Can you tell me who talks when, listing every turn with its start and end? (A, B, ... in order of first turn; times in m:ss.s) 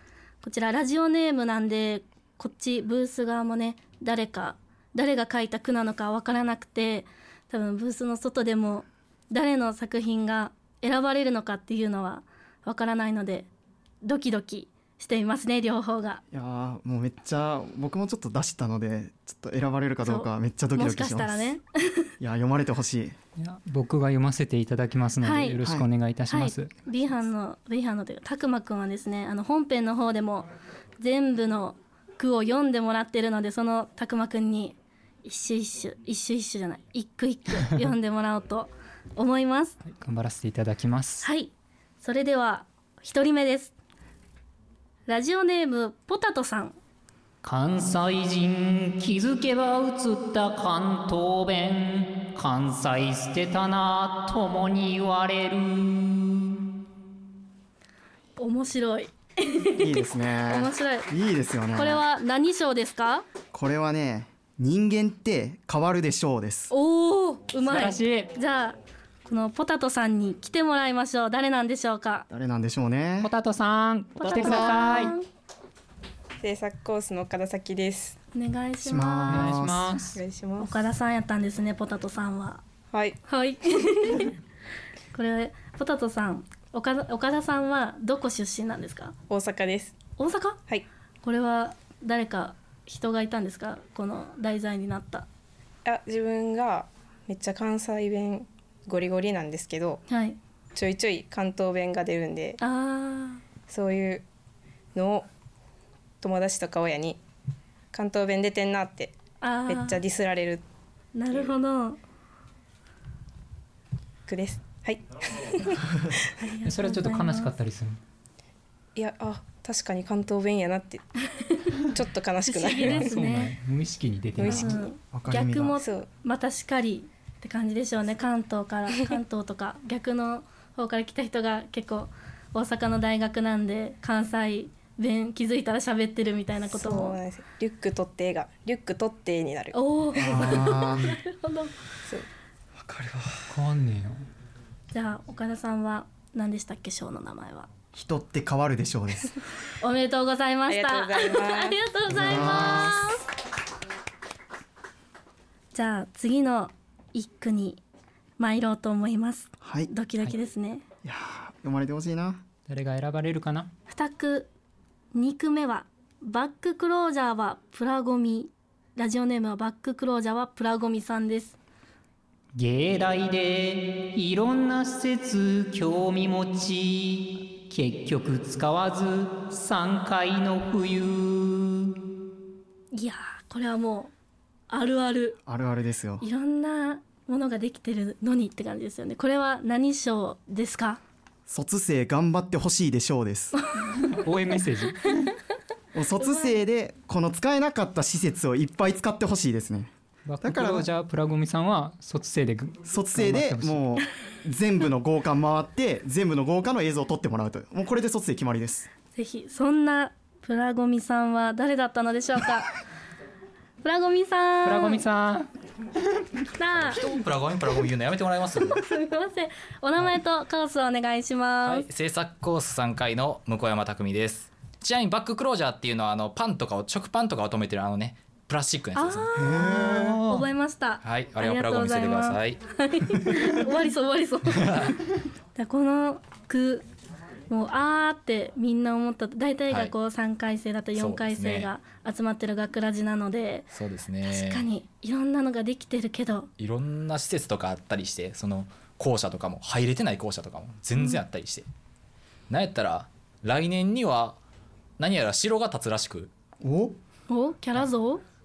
0:00.4-0:13.5 A
0:14.0-0:16.2 A
0:16.3-0:21.5 B
0:20.0-0:22.1 A
0:22.2-0:23.1 B
0:23.4-0:26.7 C
0:25.2-0:25.6 A
0:25.6-0:25.9 B
0:26.3-0:30.5 A
0:31.0-0:39.8 A
0:39.9-0:41.3 C
0:41.2-0:43.7 A
0:45.1-0:46.8 A
0:47.4-0:56.5 D
0:58.4-1:01.1 A
0:59.8-1:02.0 B
1:01.7-1:03.2 A
1:03.5-1:06.7 B
1:06.7-1:12.2 A
1:07.6-1:08.3 C
1:12.3-1:13.3 B
1:13.2-1:15.1 C
1:14.2-1:15.2 A
1:14.3-1:14.9 B
1:16.4-1:18.2 E
1:18.3-1:19.5 A
1:18.8-1:19.9 B
1:19.3-1:20.2 C
1:20.1-1:20.8 E
1:20.6-1:22.6 A
1:22.9-1:23.2 E
1:23.2-1:24.3 A
1:25.1-1:29.2 A
1:29.3-1:30.0 E
1:30.2-1:35.2 A
1:35.8-1:40.0 E
1:40.1-1:40.4 A
1:40.7-1:42.6 E
1:42.6-1:43.5 A
1:43.7-1:44.2 E
1:44.9-1:45.3 E
1:46.2-1:47.2 E
1:47.9-1:50.6 E
1:49.4-1:50.0 A
1:51.1-1:52.0 A
1:54.3-1:56.5 E
1:56.4-1:57.5 A
1:56.6-1:58.0 C
1:59.0-2:01.0 E
2:01.4-2:01.7 A
2:01.9-2:03.0 E
2:02.4-2:03.5 A
2:02.8-2:04.9 C
2:04.4-2:04.8 E
2:04.4-2:05.8 B
2:04.6-2:17.2 A
2:05.8-2:06.1 E
2:16.7-2:19.8 E
2:19.7-2:21.7 A
2:20.1-2:21.2 B
2:22.9-2:23.2 B
2:23.5-2:24.2 C
2:24.9-2:27.7 A
2:27.9-2:29.3 B
2:29.8-2:33.2 A
2:30.7-2:32.5 E
2:32.1-2:33.1 B
2:32.5-2:32.9 C
2:35.7-2:37.8 A
2:38.4-2:40.8 A
2:39.6-2:39.9 B
2:41.0-2:42.4 B
2:42.7-2:43.7 C
2:43.9-2:44.5 A
2:45.1-2:51.6 A
2:52.6-3:01.9 D
3:02.9-3:04.1 A
3:04.7-3:05.4 A
3:05.5-3:06.2 B
3:06.2-3:11.0 A
3:11.5-3:13.5 B
3:14.0-3:15.1 C
3:15.9-3:19.9 B
3:16.2-3:16.6 A
3:20.2-3:23.8 C
3:20.4-3:20.9 B
3:22.8-3:28.9 B
3:29.1-3:32.8 A
3:33.8-3:35.1 A
3:34.6-3:35.5 C
3:36.6-3:37.0 A
3:36.8-3:38.8 F
3:38.7-3:41.9 A
3:41.6-3:49.5 F
3:48.9-3:54.9 A
3:49.4-3:50.2 B
3:49.6-3:50.4 C
3:51.0-3:52.6 F
3:54.5-3:55.0 F
3:55.6-3:56.8 A
3:57.5-4:06.5 A
3:59.7-3:59.9 F
4:01.0-4:01.7 F
4:03.7-4:04.6 F
4:06.6-4:11.6 F
4:12.5-4:14.4 F
4:15.0-4:16.3 F
4:16.6-4:17.0 B
4:17.3-4:18.2 A